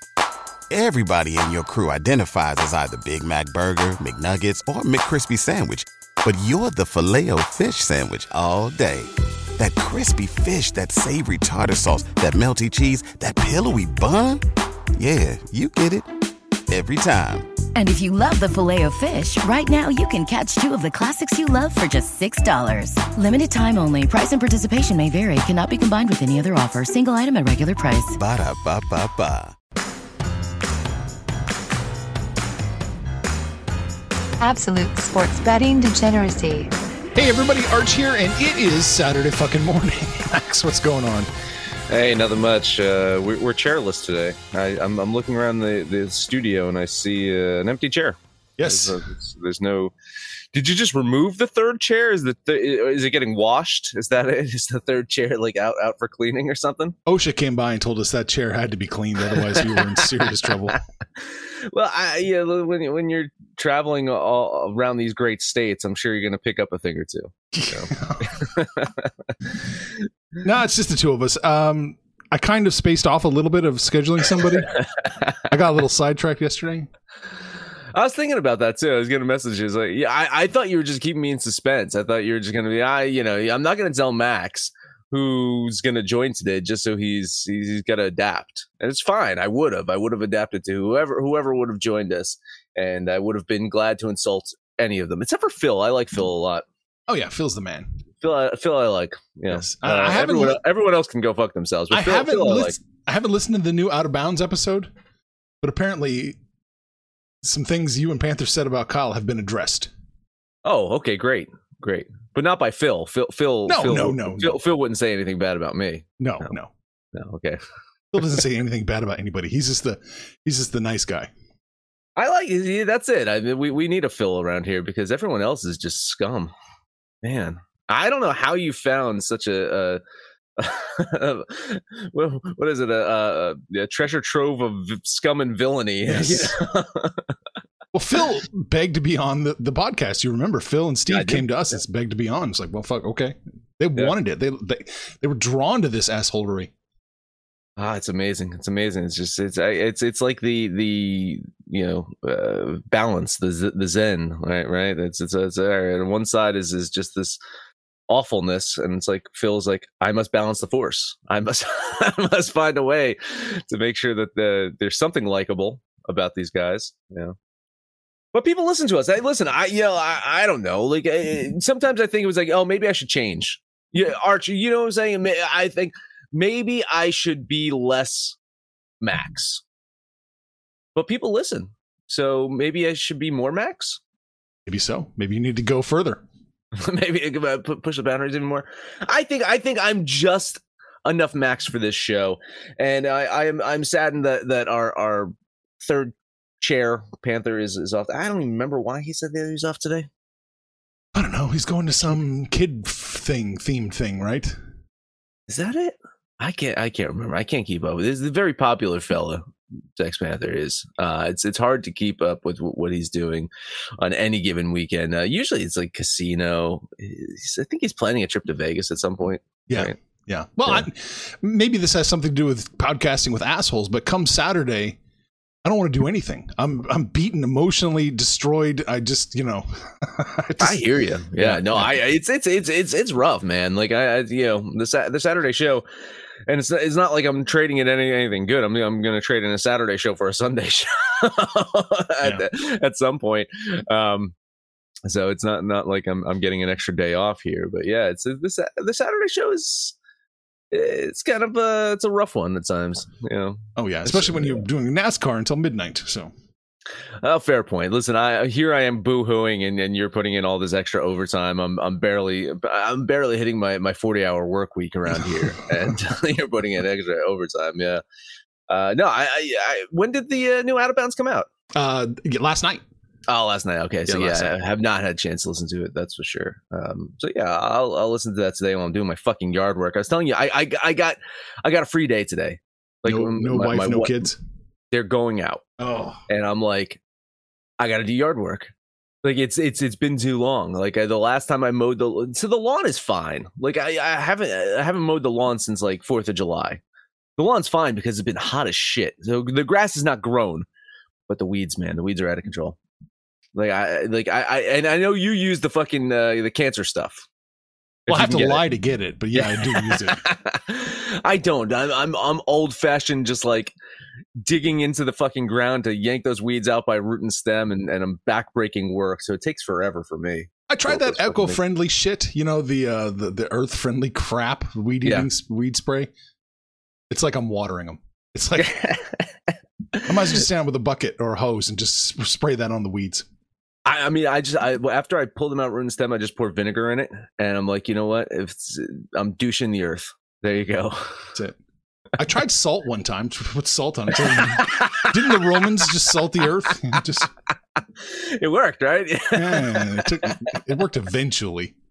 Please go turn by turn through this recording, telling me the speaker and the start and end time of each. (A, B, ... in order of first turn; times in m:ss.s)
0:00.7-0:14.4 A
0:15.0-0:16.1 A
0:16.7-0:17.5 A
0:17.8-0:28.2 B
0:28.1-0:29.5 A
0:34.4-0:36.7 C
0:37.2-0:41.3 D
0:41.9-0:49.9 E
0:48.6-0:49.0 D
0:50.5-0:57.0 E
0:57.1-1:00.8 D
0:59.4-1:00.3 E
1:01.2-1:09.1 E
1:07.5-1:08.4 D
1:10.4-1:14.7 D
1:14.7-1:15.5 E
1:15.5-1:16.9 D
1:17.9-1:36.6 E
1:37.1-1:37.9 D
1:38.2-1:42.8 E
1:39.5-1:40.6 D
1:41.9-1:44.9 D
1:45.6-1:46.4 D
1:47.4-1:49.9 D
1:50.6-1:56.5 E
1:53.7-1:54.6 D
1:56.2-1:56.7 D
1:57.1-1:57.6 E
1:58.1-2:01.3 D
2:02.2-2:06.5 E
2:07.2-2:10.0 E
2:10.6-2:17.3 E
2:16.0-2:16.5 D
2:17.9-2:26.7 D
2:21.1-2:21.4 E
2:27.8-2:37.4 E
2:38.1-2:47.4 E
2:48.3-2:58.4 E
2:59.0-2:59.6 E
3:01.0-3:04.0 E
3:04.7-3:06.2 D
3:06.7-3:20.1 E
3:21.2-3:24.6 D
3:25.5-3:29.4 E
3:30.0-3:40.0 E
3:39.7-3:45.0 D
3:45.6-3:52.0 D
3:50.6-3:55.8 E
3:56.5-4:04.3 E
4:05.0-4:10.0 E
4:10.7-4:14.6 E
4:13.8-4:16.3 D
4:17.2-4:28.0 E
4:25.1-4:25.9 D
4:28.7-4:31.5 E
4:31.7-4:32.8 D
4:33.3-4:44.3 E
4:34.1-4:34.5 D
4:43.0-4:44.4 D
4:44.9-4:45.6 E
4:45.8-4:46.2 D
4:46.3-4:47.0 E
4:47.8-4:48.7 E
4:49.2-4:56.8 E
4:57.4-5:00.7 E
5:01.3-5:02.8 E
5:03.6-5:07.2 E
5:08.1-5:08.7 E
5:08.1-5:10.2 D
5:09.4-5:13.8 E
5:14.4-5:21.6 E
5:20.7-5:26.1 D
5:25.0-5:25.3 E
5:27.1-5:28.9 D
5:28.6-5:30.4 E
5:30.0-5:33.3 D
5:33.8-5:41.3 E
5:42.2-5:47.3 D
5:44.2-5:46.1 E
5:47.8-5:50.6 E
5:49.3-5:51.8 D